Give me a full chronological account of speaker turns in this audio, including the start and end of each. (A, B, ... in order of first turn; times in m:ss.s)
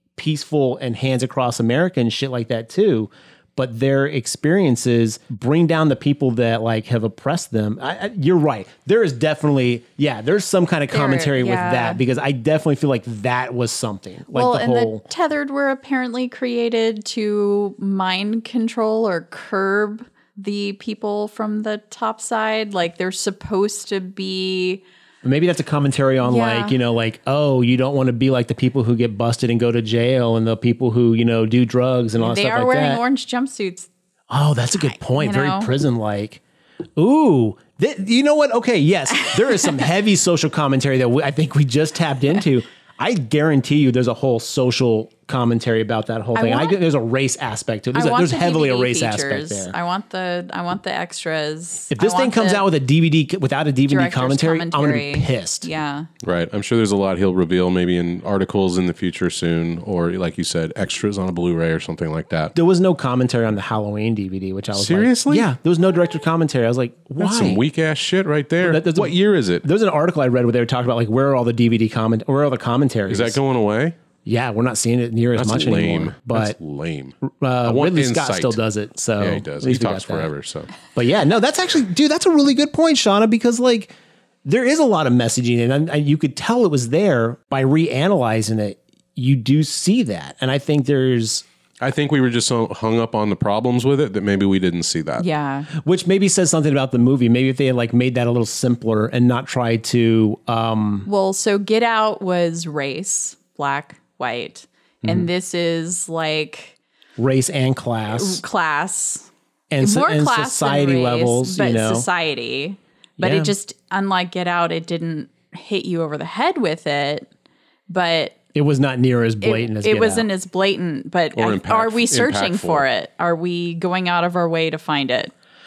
0:00.2-0:15.0 A
0:10.9-0:12.0 B
0:14.3-0:24.8 B
0:25.2-0:33.0 A
0:26.2-0:26.8 B
0:32.2-0:33.9 B
0:34.3-0:36.4 A
0:34.8-0:35.7 B
0:37.0-0:49.7 A
0:46.3-0:46.8 B
0:47.9-0:52.6 B
0:51.9-0:55.7 A
0:53.9-0:56.1 B
0:56.2-1:02.5 C
1:02.5-1:07.6 A
1:04.7-1:05.5 C
1:07.2-1:09.6 C
1:08.6-1:13.4 A
1:13.1-1:14.0 C
1:14.2-1:16.6 A
1:15.4-1:18.6 C
1:17.2-1:20.3 A
1:19.2-1:20.7 C
1:20.8-1:23.9 A
1:24.4-1:31.4 A
1:31.8-1:35.2 C
1:35.2-1:35.7 B
1:35.7-1:41.1 A
1:41.0-1:46.8 B
1:45.0-1:45.3 A
1:47.2-1:48.4 A
1:48.1-1:49.3 B
1:49.7-1:52.1 A
1:49.8-1:57.3 B
1:53.2-1:53.5 A
1:57.9-1:58.4 B
1:58.5-2:00.3 A
1:59.4-2:05.3 B
2:01.3-2:02.8 C